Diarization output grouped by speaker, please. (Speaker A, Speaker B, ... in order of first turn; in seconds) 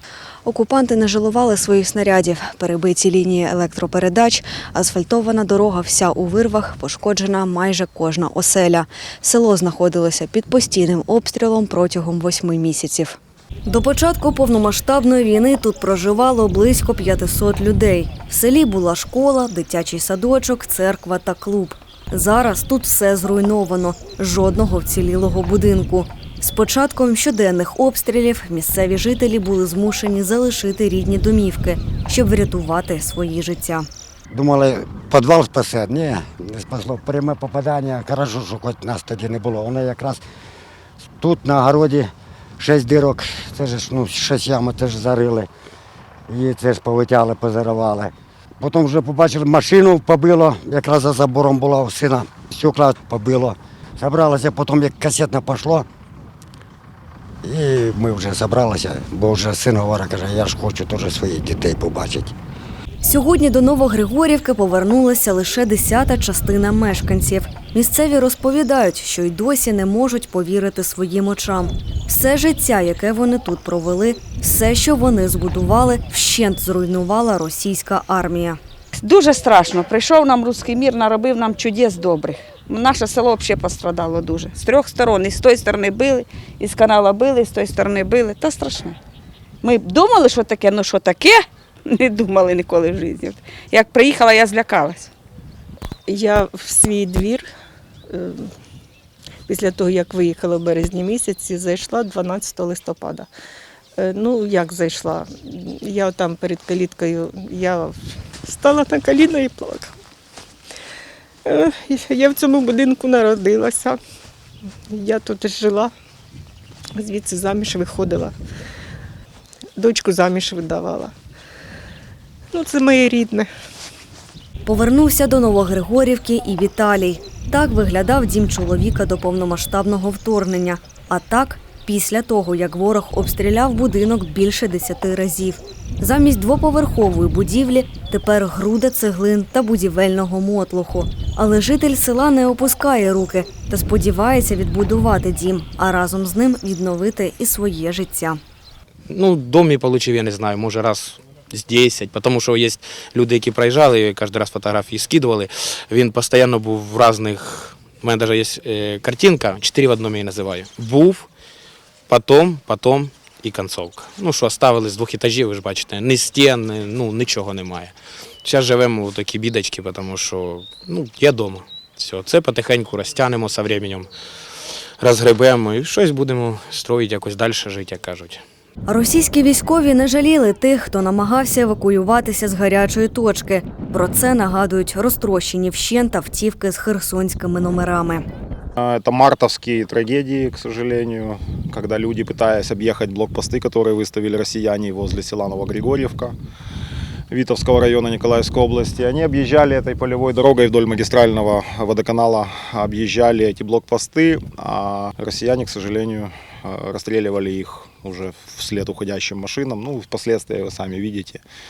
Speaker A: 0.5-33.9, 63.0-78.6, 124.7-148.4, 178.9-188.2
Speaker B: 34.3-40.2, 41.2-45.5, 46.3-55.9, 57.4-62.3
Speaker C: 78.9-89.0, 89.6-95.1
Speaker D: 96.1-97.5, 98.1-98.5, 99.5-103.3, 104.0-109.9, 111.5-114.0, 114.9-115.9, 117.0-118.3, 119.8-121.1, 122.5-123.5
Speaker E: 149.1-161.3, 162.1-174.1, 175.0-178.4
Speaker F: 188.8-196.3, 197.3-211.4